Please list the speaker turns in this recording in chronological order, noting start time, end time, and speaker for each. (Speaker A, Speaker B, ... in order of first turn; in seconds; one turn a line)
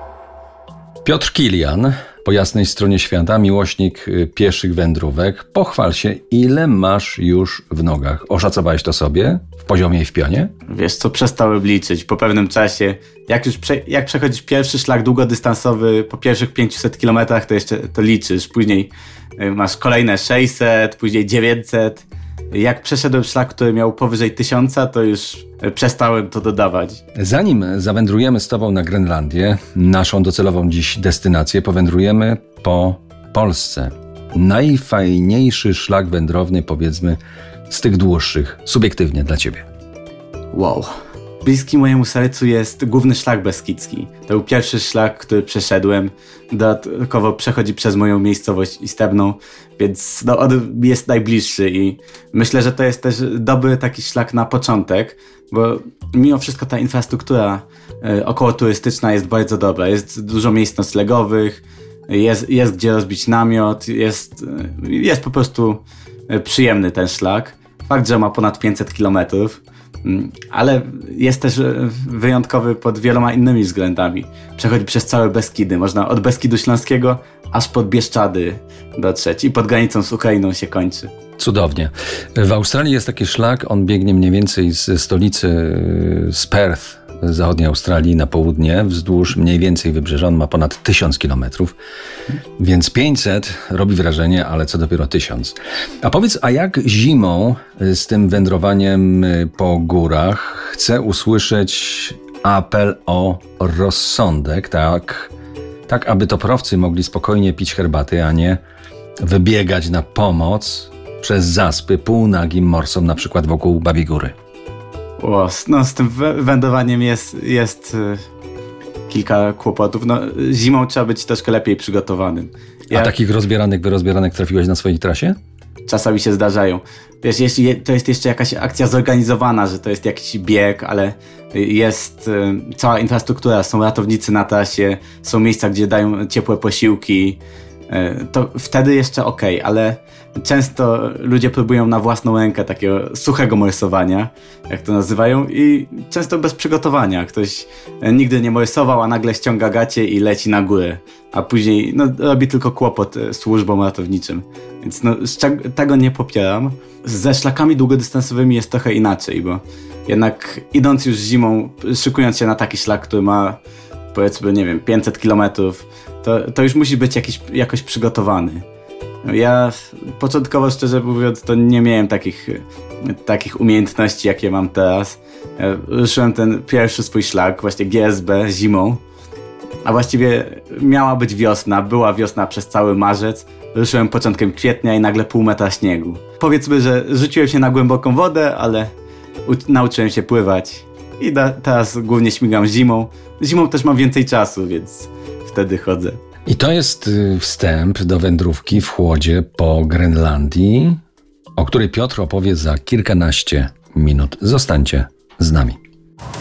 Speaker A: 1.0-10.5
Speaker B: 10.7-27.0
Speaker A: 27.1-39.6
Speaker B: 40.5-40.9
Speaker B: 41.4-81.1
Speaker A: 81.4-91.7
Speaker A: 92.6-105.3
Speaker A: 105.9-108.6
Speaker A: 109.2-114.3
Speaker B: 115.2-118.2
Speaker B: 119.1-123.1
Speaker A: 122.9-125.4
Speaker B: 125.8-163.6
Speaker B: 164.1-168.6
Speaker B: 169.2-179.0
Speaker B: 179.8-188.9
Speaker B: 189.4-196.2
Speaker A: 196.4-201.0
Speaker A: 201.6-205.8